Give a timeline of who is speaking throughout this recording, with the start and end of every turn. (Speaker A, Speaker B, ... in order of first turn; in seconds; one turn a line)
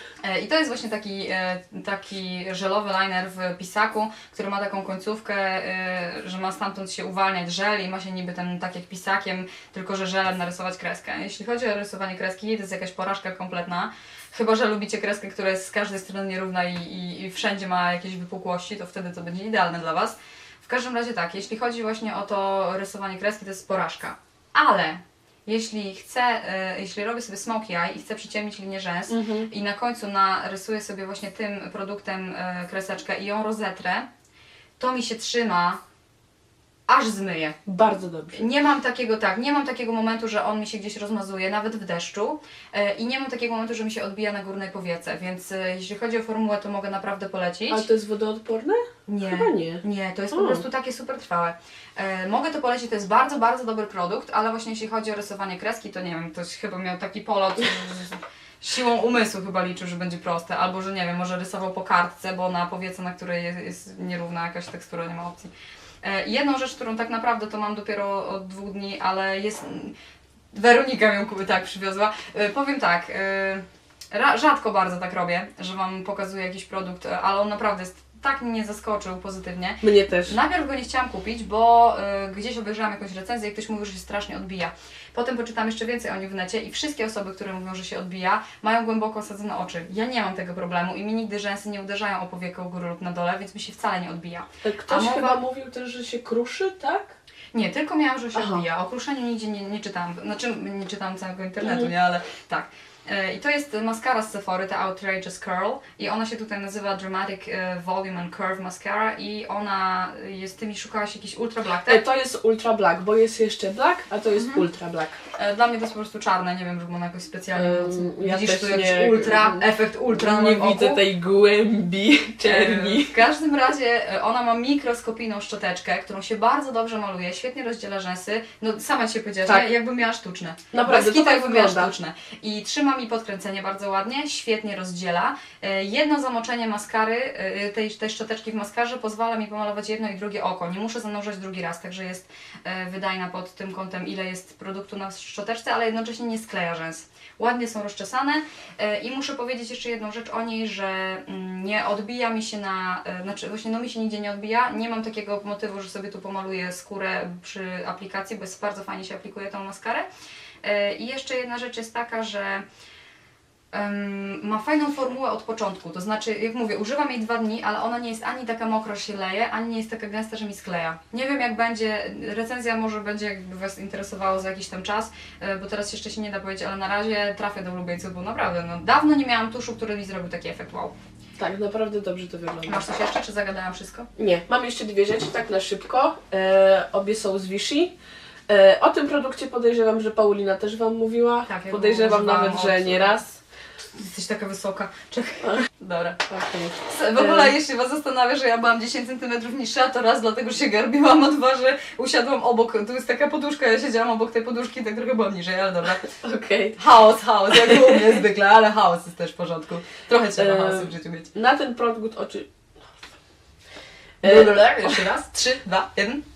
Speaker A: 0.2-34.1
Speaker B: 29.1-29.5
Speaker A: 34.8-35.8
Speaker A: 36.9-37.6
Speaker B: 37.6-38.4
Speaker A: 38.3-47.9
Speaker B: 47.7-50.6
Speaker A: 49.1-65.5
Speaker A: 66.0-69.9
Speaker A: 70.5-95.4
Speaker B: 79.8-80.3
Speaker B: 94.6-97.2
Speaker A: 97.5-112.0
Speaker B: 98.3-98.6
Speaker B: 101.6-101.9
Speaker B: 111.9-115.2
Speaker A: 114.3-114.6
Speaker A: 115.3-121.0
Speaker B: 117.5-123.2
Speaker A: 122.4-160.1
Speaker B: 129.4-129.7
Speaker B: 130.7-131.9
Speaker A: 160.6-162.6
Speaker A: 163.7-180.9
Speaker B: 181.4-182.9
Speaker A: 182.6-184.1
Speaker B: 184.2-187.9
Speaker B: 188.5-193.4
Speaker A: 191.4-193.2
Speaker A: 193.9-196.2
Speaker B: 196.3-197.5
Speaker A: 196.8-206.1
Speaker B: 206.2-206.8
Speaker A: 206.8-211.3
Speaker B: 207.7-208.0
Speaker B: 210.4-212.9
Speaker B: 214.2-215.1
Speaker A: 214.2-216.2